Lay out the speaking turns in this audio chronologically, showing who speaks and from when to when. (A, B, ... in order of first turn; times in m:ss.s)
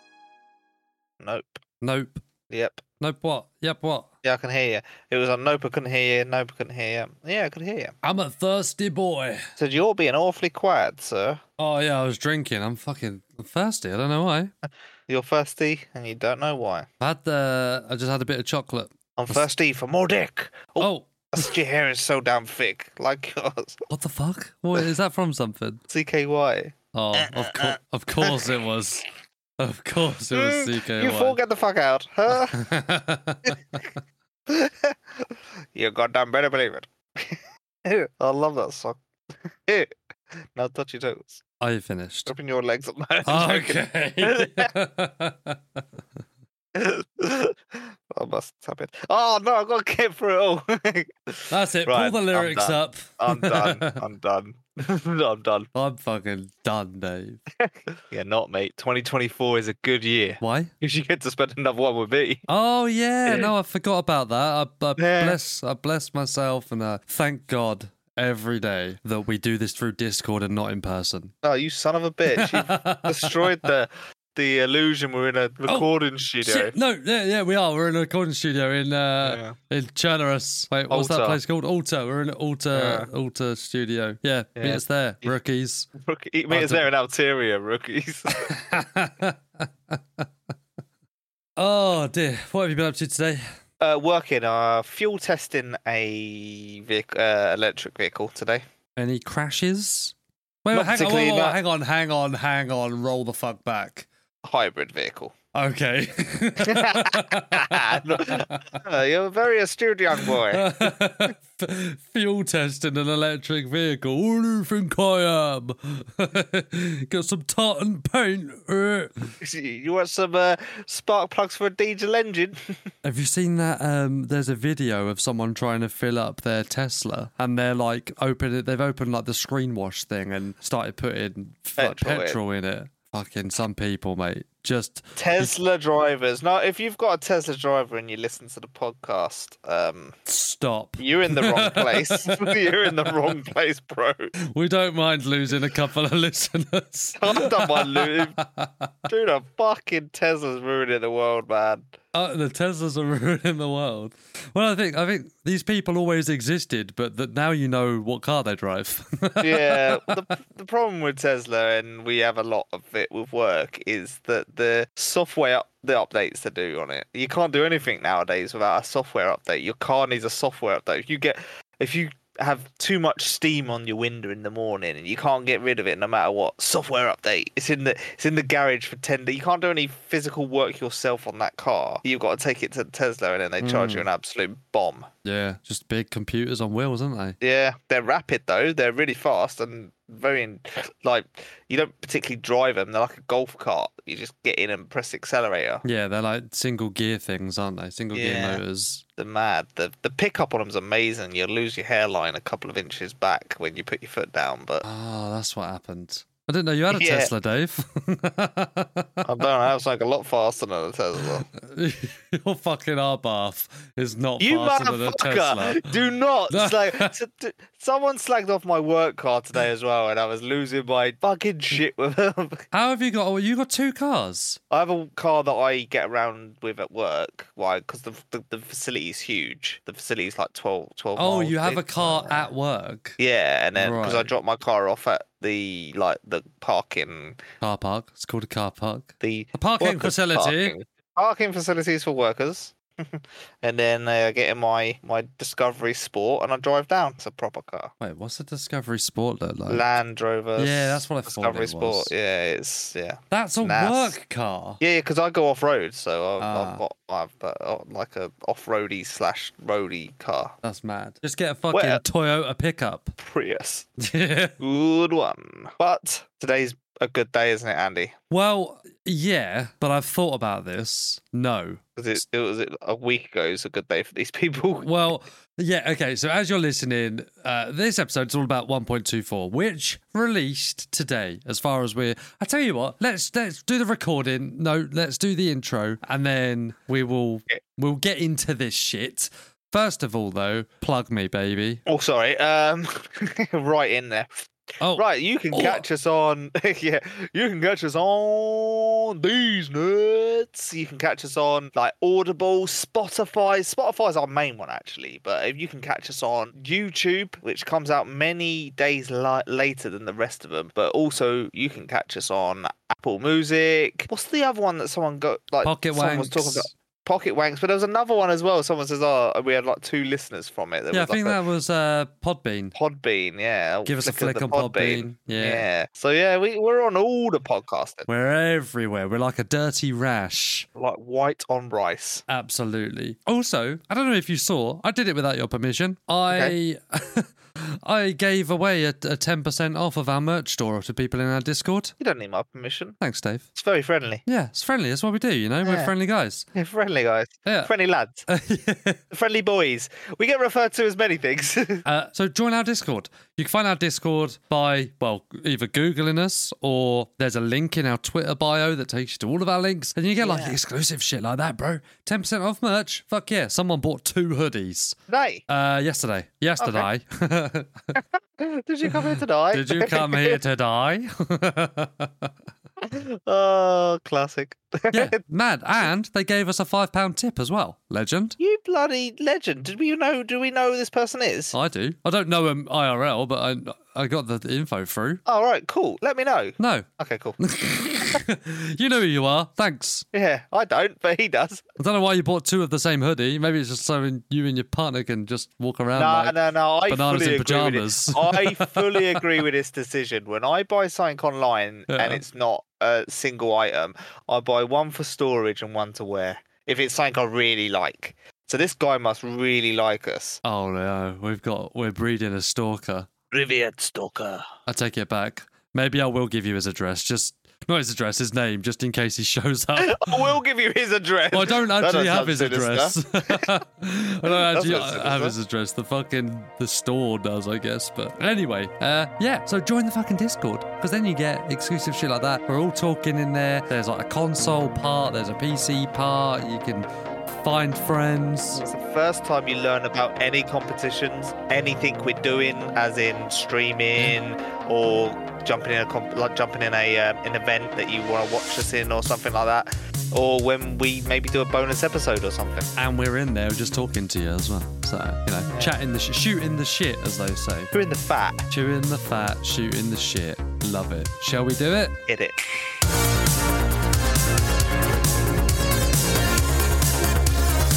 0:01.2-0:01.6 A
0:01.8-0:02.2 B
0:02.5-0:02.8 A
0:03.0-0:04.1 B
0:04.2-0:07.9 A
0:08.0-0:09.5 B
0:09.6-0:11.4 A
0:11.6-0:14.5 B
0:15.1-0:16.9 A
0:17.0-0:19.4 B
0:19.2-0:23.8 A
0:20.8-0:21.5 B
0:23.9-0:25.8 B
0:25.9-0:28.5 A
0:26.9-0:29.0 B
0:29.6-0:31.4 B
0:30.3-0:32.6 A
0:32.3-0:33.8 B
0:34.5-0:39.0 A
0:39.6-0:39.9 A
0:40.5-0:41.4 A
0:41.6-0:42.3 B
0:42.3-0:44.7 A
0:43.2-0:45.8 B
0:46.7-0:55.7 A
0:51.5-0:53.9 B
0:55.7-0:57.4 B
0:57.6-1:02.4 A
1:00.4-1:00.7 B
1:02.5-1:11.3 B
1:03.2-1:03.5 A
1:05.0-1:05.4 A
1:11.4-1:16.7 A
1:12.4-1:13.5 B
1:16.4-1:25.9 B
1:19.2-1:19.6 A
1:20.9-1:21.4 A
1:22.7-1:23.1 A
1:24.6-1:25.3 A
1:26.0-1:28.8 A
1:26.5-1:26.8 B
1:28.4-1:30.3 B
1:31.6-1:33.4 B
1:33.8-1:38.6 A
1:39.0-1:44.1 B
1:40.7-1:41.6 A
1:44.4-1:45.3 A
1:45.5-1:48.8 B
1:46.6-1:50.8 A
1:50.2-1:59.3 B
1:59.4-2:02.8 A
2:03.0-2:15.5 B
2:11.8-2:12.4 A
2:15.2-2:20.2 A
2:20.2-2:23.4 B
2:21.0-2:24.3 A
2:24.5-2:28.9 B
2:27.2-2:28.4 A
2:29.1-2:32.0 A
2:32.1-2:40.1 B
2:39.4-3:05.1 A
3:03.6-3:04.0 B
3:05.2-3:07.4 B
3:07.4-3:15.8 A
3:15.8-3:19.0 B
3:18.1-3:18.6 A
3:19.2-3:24.8 A
3:24.8-3:29.2 B
3:26.9-3:27.3 A
3:29.2-3:31.5 A
3:31.5-3:36.0 B
3:34.4-3:42.6 A
3:36.5-3:37.1 B
3:42.7-3:44.6 B
3:44.7-3:52.5 A
3:51.2-3:53.2 B
3:53.2-3:57.4 A
3:53.8-3:54.3 B
3:57.6-4:00.7 B
3:59.2-4:07.9 A
4:08.0-4:09.9 B
4:09.7-4:14.2 A
4:10.6-4:12.1 B
4:13.3-4:14.8 B
4:14.8-4:20.5 A
4:16.4-4:16.8 B
4:20.6-4:23.1 B
4:21.7-4:22.0 A
4:23.2-4:23.9 A
4:24.0-4:24.6 B
4:24.6-4:28.1 A
4:28.3-4:31.8 B
4:32.0-4:34.9 A
4:34.8-4:51.8 B
4:51.8-5:21.4 A
4:54.8-4:55.8 B
5:15.6-5:16.7 B
5:20.9-5:22.7 B
5:22.7-5:28.1 A
5:23.8-5:25.6 B
5:28.1-5:30.7 B
5:30.8-5:32.2 A
5:32.3-5:41.9 B
5:42.0-5:43.0 A
5:43.0-5:43.4 B
5:43.5-5:44.2 A
5:44.2-5:46.5 B
5:45.6-5:45.9 A
5:46.5-5:48.2 A
5:47.4-5:47.7 B
5:48.3-5:49.0 B
5:49.1-5:51.8 A
5:51.8-6:08.0 B
6:00.2-6:00.6 A
6:05.1-6:05.4 A
6:06.6-6:06.8 A
6:07.9-6:10.4 A
6:08.8-6:12.3 B
6:12.8-6:15.2 A
6:14.9-6:18.4 B
6:18.4-6:21.5 A
6:21.5-6:25.2 B
6:25.2-6:27.4 A
6:26.6-6:26.9 B
6:27.4-6:30.0 B
6:30.1-6:31.6 A
6:31.8-6:36.3 B
6:35.9-6:50.4 A
6:36.9-6:39.4 B
6:41.9-6:42.2 B
6:50.4-6:53.1 B
6:53.3-6:54.4 A
6:54.7-7:00.3 B
6:59.8-7:03.5 A
7:01.3-7:18.6 B
7:04.2-7:05.3 A
7:18.5-7:32.7 A
7:32.8-7:37.7 B
7:37.7-7:38.5 A
7:38.5-7:42.0 B
7:42.1-7:42.5 A